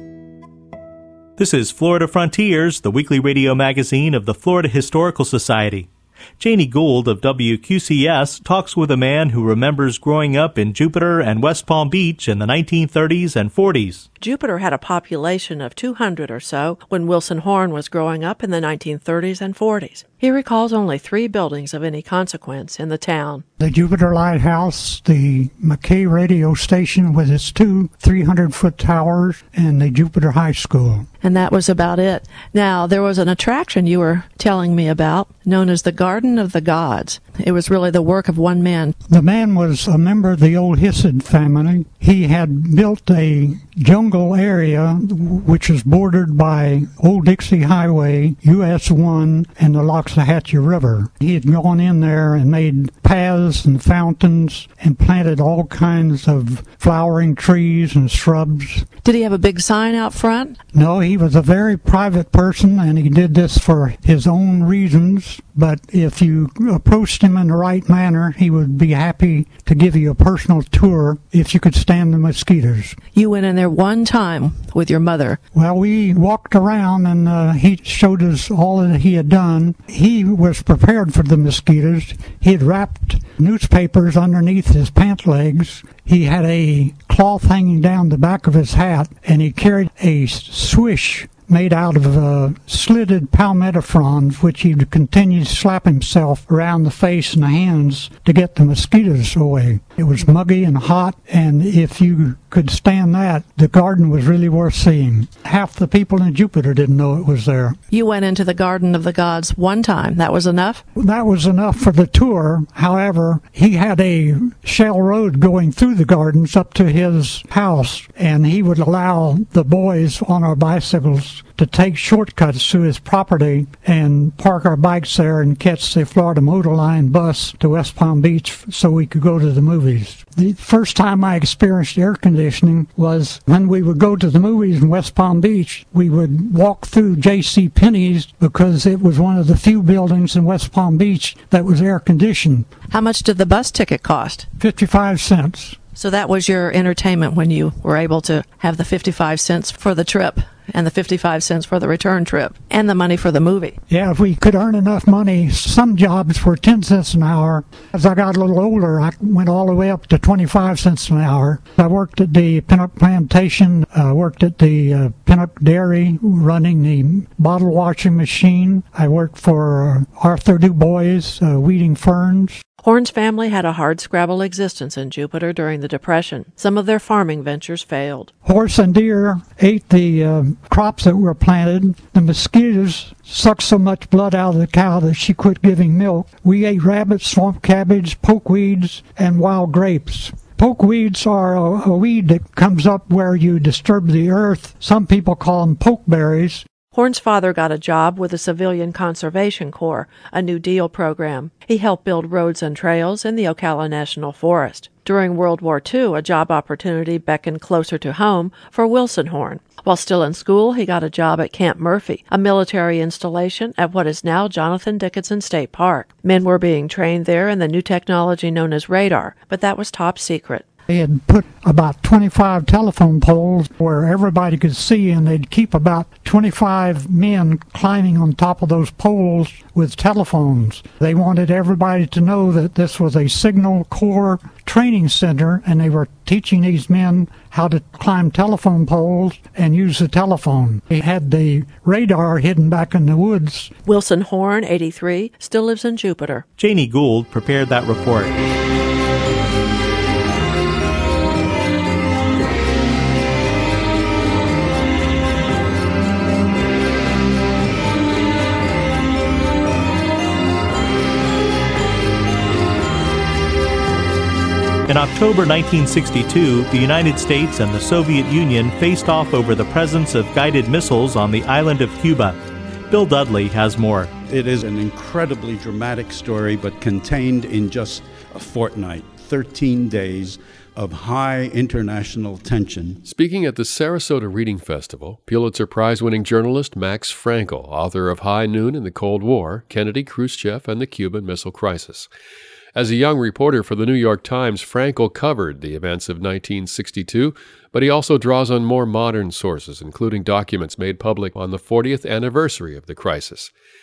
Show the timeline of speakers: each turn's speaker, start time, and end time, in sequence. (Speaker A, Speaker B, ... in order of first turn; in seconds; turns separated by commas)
Speaker A: 1.4-14.1, Speaker B: 14.2-23.4, Speaker C: 23.6-31.1, Speaker B: 31.2-39.0, Speaker C: 39.1-58.9, Speaker B: 59.0-60.6, Speaker C: 60.7-73.0, Speaker B: 73.1-75.4, Speaker C: 75.5-107.8, Speaker B: 107.9-110.8, Speaker C: 110.9-142.7, Speaker B: 142.9-144.5, Speaker C: 144.6-145.8, Speaker B: 145.9-153.8, Speaker C: 153.9-172.6, Speaker B: 172.8-178.3, Speaker C: 178.4-196.7, Speaker B: 196.9-220.7, Speaker C: 220.9-243.7, Speaker B: 243.8-246.4, Speaker A: 246.6-248.3, Speaker A: 264.9-272.4, Speaker A: 272.9-274.1, Speaker D: 274.3-283.0, Speaker E: 283.0-292.1, Speaker E: 292.7-303.5